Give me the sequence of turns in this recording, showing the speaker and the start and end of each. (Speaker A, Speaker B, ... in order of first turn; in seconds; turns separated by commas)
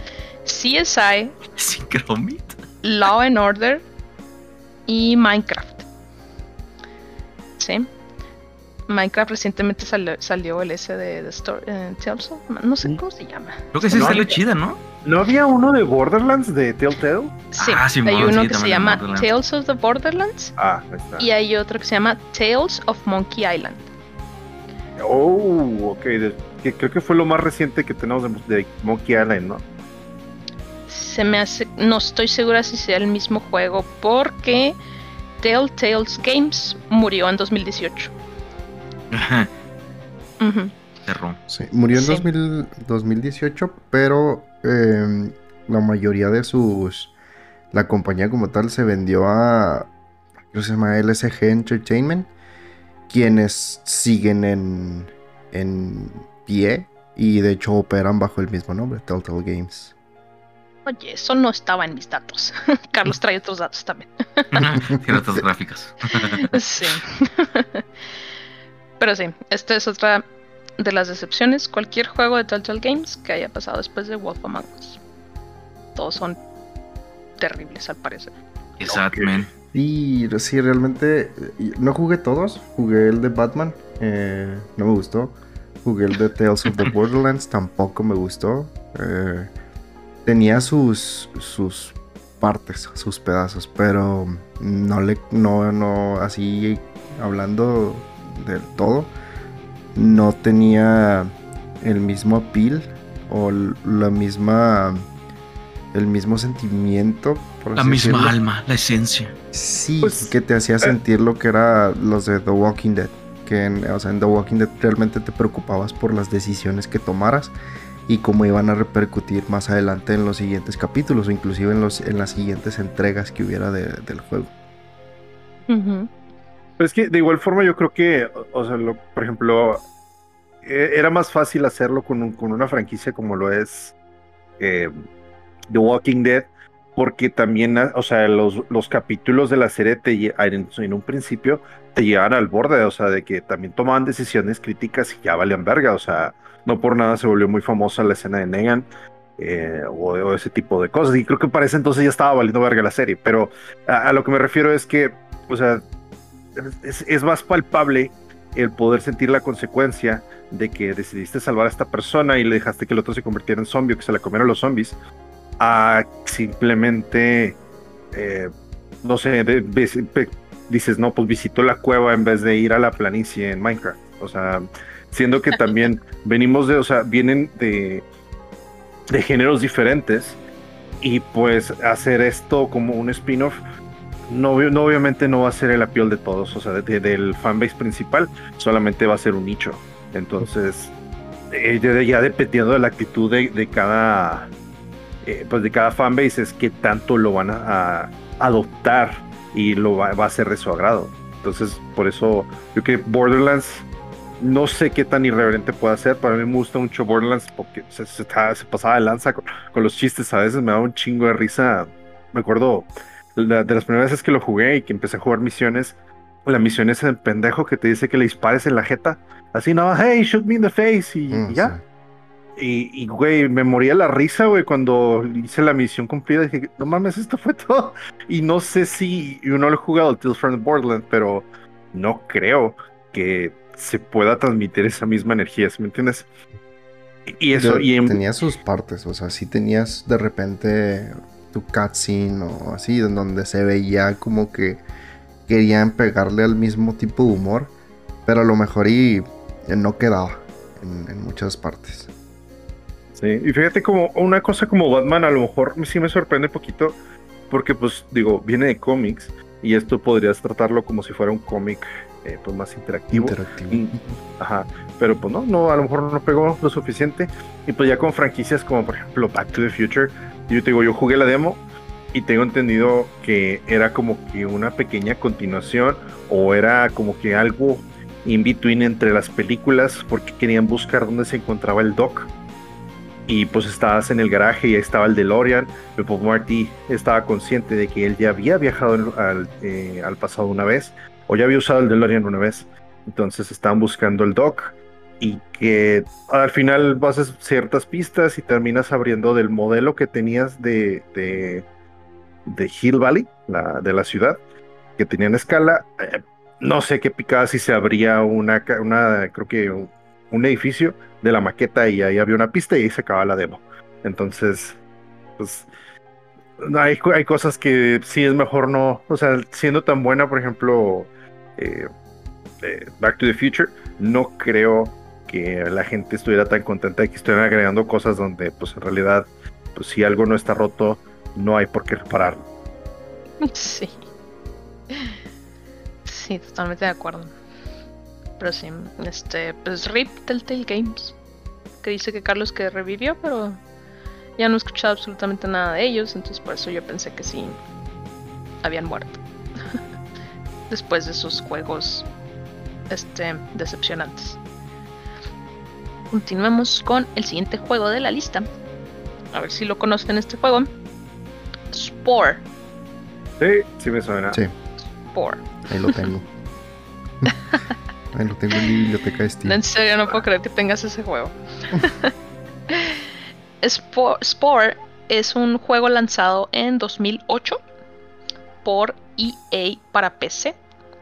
Speaker A: 0.4-1.4, Speaker B: 1.5-2.5, Speaker A: 2.8-3.8, Speaker A: 4.9-5.8, Speaker A: 7.6-7.9, Speaker A: 8.9-14.1, Speaker B: 13.7-14.8, Speaker C: 13.9-14.4, Speaker C: 15.0-17.4, Speaker A: 17.5-20.5, Speaker B: 17.6-19.3, Speaker C: 20.6-21.3, Speaker A: 21.2-23.8, Speaker C: 25.0-29.6, Speaker A: 30.9-34.8, Speaker A: 35.4-38.1, Speaker B: 39.1-39.5, Speaker A: 40.4-40.8, Speaker B: 41.0-41.6, Speaker D: 41.6-47.1, Speaker A: 41.9-42.3, Speaker D: 47.7-49.9, Speaker D: 50.5-52.3, Speaker D: 53.1-59.9, Speaker A: 60.9-64.7, Speaker B: 64.5-66.6, Speaker D: 64.9-65.4, Speaker A: 66.2-67.8, Speaker A: 69.0-70.2, Speaker A: 70.8-75.0, Speaker A: 75.9-76.4, Speaker A: 77.4-78.3, Speaker B: 78.8-79.5, Speaker C: 78.9-79.4, Speaker D: 79.7-89.5, Speaker D: 90.2-99.1, Speaker D: 99.9-105.1, Speaker D: 105.9-108.3, Speaker B: 107.8-109.3, Speaker D: 109.5-117.5, Speaker C: 110.0-110.9, Speaker D: 118.1-124.5, Speaker A: 125.7-126.1, Speaker C: 126.8-129.8, Speaker C: 130.6-133.9, Speaker C: 134.6-134.9, Speaker C: 135.7-148.9, Speaker C: 149.4-155.8, Speaker C: 156.6-164.9, Speaker C: 165.6-167.6, Speaker C: 168.1-168.5, Speaker C: 169.0-178.1, Speaker C: 179.1-180.4, Speaker C: 181.0-183.6, Speaker C: 184.3-190.9, Speaker C: 191.5-194.5, Speaker C: 195.2-203.8, Speaker C: 204.4-215.9, Speaker C: 216.4-221.8, Speaker D: 221.3-221.8, Speaker C: 222.6-236.3, Speaker C: 237.3-238.2, Speaker D: 237.5-244.8, Speaker D: 245.5-247.7, Speaker D: 248.2-252.1, Speaker C: 253.2-257.0, Speaker C: 257.5-271.6, Speaker D: 263.1-264.2, Speaker C: 272.1-282.3, Speaker C: 283.3-301.6, Speaker C: 302.4-304.4, Speaker C: 305.0-314.8, Speaker C: 315.4-315.7, Speaker C: 316.6-321.9, Speaker C: 322.6-332.4, Speaker A: 333.4-333.9, Speaker A: 336.1-337.3, Speaker A: 338.4-341.1, Speaker A: 341.8-343.6, Speaker A: 344.4-347.6, Speaker A: 348.6-349.2, Speaker A: 350.7-352.1, Speaker A: 352.9-354.4, Speaker A: 356.1-358.4, Speaker A: 359.3-360.7, Speaker A: 361.7-362.4, Speaker C: 363.4-364.4, Speaker A: 365.1-365.9, Speaker D: 365.7-366.3, Speaker D: 368.1-369.6, Speaker A: 369.4-372.1, Speaker A: 372.7-373.0, Speaker A: 373.6-377.6, Speaker A: 378.6-380.6